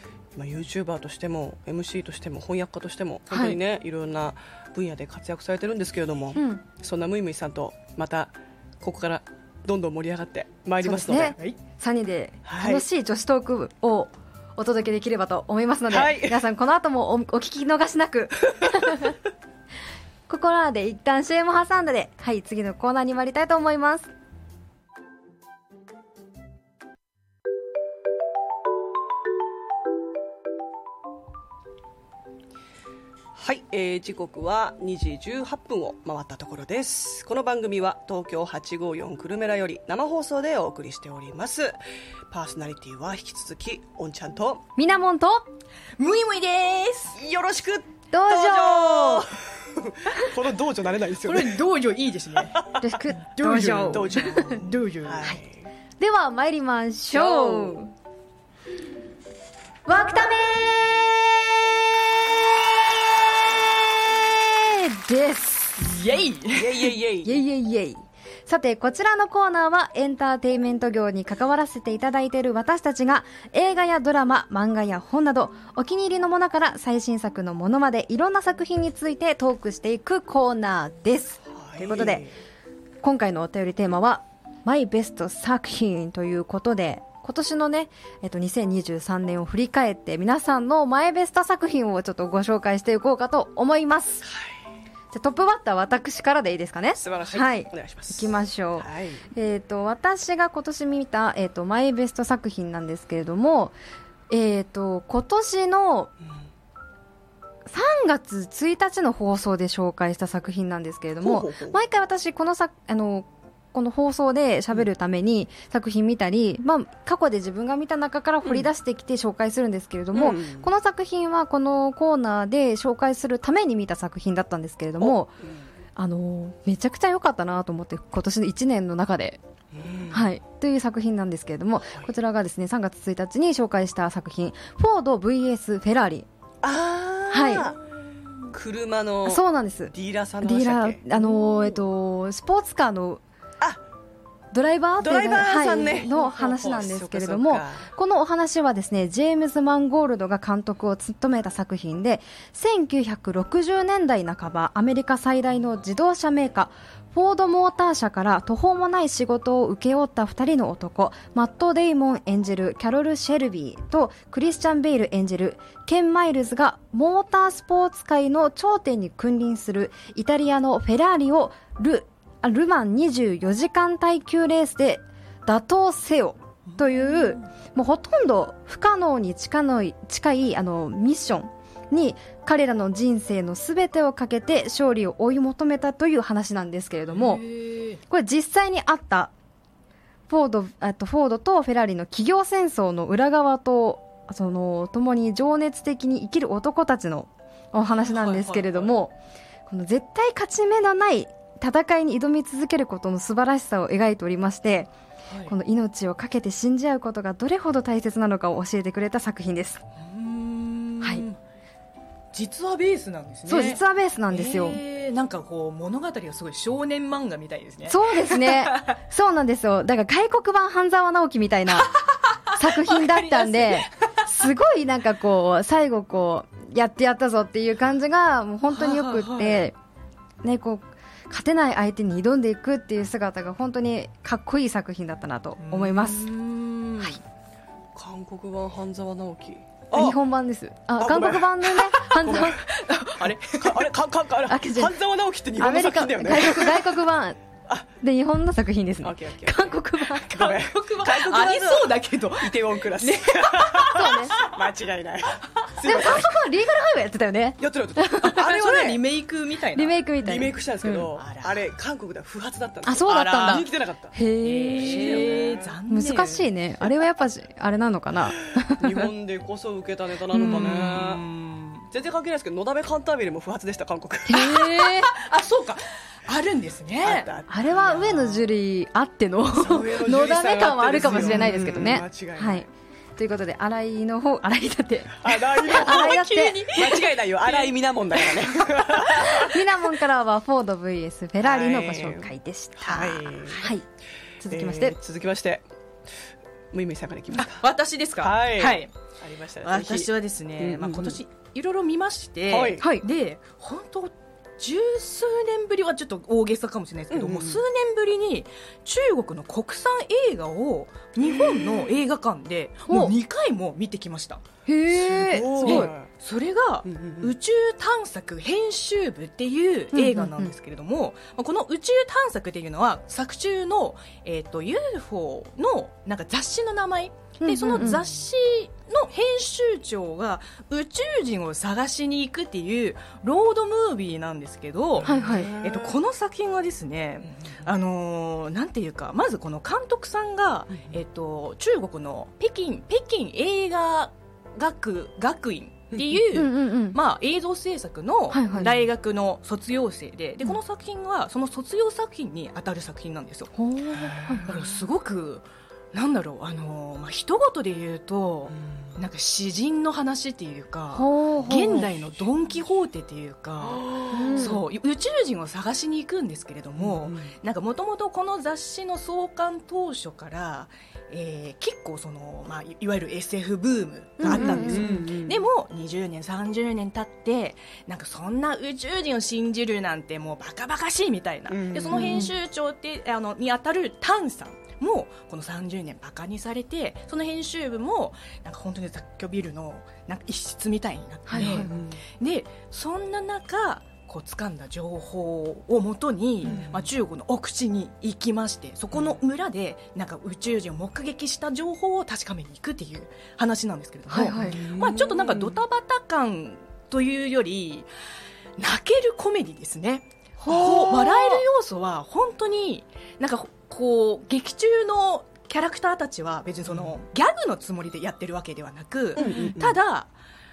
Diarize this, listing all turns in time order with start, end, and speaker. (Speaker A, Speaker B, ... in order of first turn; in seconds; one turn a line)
Speaker A: 0.3-11.4
Speaker B: 3.3-3.6
Speaker B: 6.4-6.6
Speaker B: 10.8-19.2
Speaker C: 11.1-11.6
Speaker A: 12.4-12.9
Speaker A: 15.9-16.4
Speaker A: 18.6-19.1
Speaker B: 20.3-24.1
Speaker A: 33.3-41.8
Speaker A: 42.3-44.6
Speaker B: 44.8-45.5
Speaker C: 46.0-47.2
Speaker A: 47.1-51.6
Speaker B: 48.1-49.3
Speaker C: 51.2-52.6
Speaker A: 52.5-52.8
Speaker B: 52.8-54.6
Speaker C: 53.3-55.3
Speaker A: 53.8-55.7
Speaker B: 56.0-57.9
Speaker A: 57.1-57.8
Speaker B: 59.9-61.1
Speaker B: 64.5-65.9
Speaker C: 65.8-66.9
Speaker A: 66.5-67.4
Speaker B: 67.2-82.2
Speaker A: 81.5-82.4
Speaker B: 83.0-94.2
Speaker A: 94.2-94.5
Speaker B: 95.1-103.8
Speaker A: 97.0-99.2
Speaker B: 104.3-106.1
Speaker B: 107.7-125.4
Speaker A: 111.2-111.8
Speaker A: 118.4-118.7
Speaker A: 120.1-120.7
Speaker A: 125.0-125.6
Speaker B: 126.0-129.4
Speaker A: 129.7-130.3
Speaker B: 130.1-136.2
Speaker A: 136.6-137.8
Speaker B: 137.3-137.7
Speaker A: 138.5-141.8
Speaker B: 139.2-143.2
Speaker B: 144.5-187.4
Speaker A: 145.0-147.9
Speaker C: 176.7-177.5
Speaker C: 187.1-188.0
Speaker B: 188.1-189.3
Speaker B: 190.3-199.1
Speaker C: 197.9-198.9
Speaker B: 199.7-204.9
Speaker C: 205.3-205.5
Speaker B: 205.5-209.8
Speaker C: 210.0-211.4
Speaker C: 212.3-218.9
Speaker B: 213.5-214.8
Speaker B: 217.9-221.9
Speaker C: 221.8-224.1
Speaker B: 222.5-229.8
Speaker C: 228.7-229.7
Speaker B: 230.4-236.3
Speaker C: 235.6-237.2
Speaker A: 237.9-240.2
Speaker B: 239.9-242.6
Speaker A: 241.0-242.7
Speaker C: 242.5-243.9
Speaker A: 243.2-246.9
Speaker B: 244.5-244.9
Speaker B: 245.6-247.4
Speaker B: 248.0-250.3
Speaker A: 249.0-256.4
Speaker C: 250.3-254.5
Speaker B: 253.9-254.4
Speaker B: 255.8-258.4
Speaker A: 257.6-259.0
Speaker C: 258.2-260.0
Speaker B: 259.8-261.1
Speaker A: 260.2-264.1
Speaker C: 261.1-261.6
Speaker B: 262.9-265.4
Speaker C: 263.1-263.7
Speaker C: 264.4-266.5
Speaker A: 264.8-265.8
Speaker B: 265.9-269.1
Speaker A: 268.7-271.2
Speaker B: 270.3-270.7
Speaker C: 270.4-271.9
Speaker A: 271.9-274.6
Speaker B: 274.3-275.1
Speaker C: 274.9-277.3
Speaker A: 277.0-278.4
Speaker B: 277.5-286.7
Speaker A: 279.5-282.7
Speaker C: 281.0-281.6
Speaker A: 285.2-289.7
Speaker C: 285.6-289.0
Speaker B: 289.2-293.9
Speaker A: 291.4-293.7
Speaker B: 294.4-295.0
Speaker A: 294.5-295.7
Speaker A: 296.7-297.7
Speaker C: 297.4-298.9
Speaker A: 298.2-301.2
Speaker C: 299.6-314.4
Speaker A: 302.5-302.8
Speaker B: 302.8-303.0
Speaker A: 307.1-307.6
Speaker A: 311.2-311.9
Speaker B: 312.9-313.1
Speaker B: 314.7-315.9
Speaker A: 314.9-316.1
Speaker C: 315.6-353.5
Speaker A: 316.9-317.4
Speaker B: 319.9-320.5
Speaker B: 327.4-328.0
Speaker A: 335.0-336.0
Speaker B: 335.0-335.5
Speaker A: 345.9-346.2
Speaker B: 346.3-347.0
Speaker B: 348.3-348.8
Speaker B: 353.6-354.5
Speaker A: 354.0-354.6
Speaker C: 354.4-407.9
Speaker B: 360.9-361.9
Speaker A: 363.6-364.5
Speaker B: 364.1-364.6
Speaker A: 366.8-367.3
Speaker B: 374.2-375.0
Speaker A: 374.2-375.4
Speaker A: 381.5-382.1
Speaker B: 381.9-382.3
Speaker B: 391.3-391.7
Speaker A: 391.4-392.0
Speaker A: 396.4-396.9
Speaker B: 404.1-404.6
Speaker A: 404.4-405.6
Speaker C: 408.6-420.1
Speaker B: 410.4-411.4
Speaker A: 416.7-416.9
Speaker B: 419.2-419.5
Speaker A: 419.2-419.8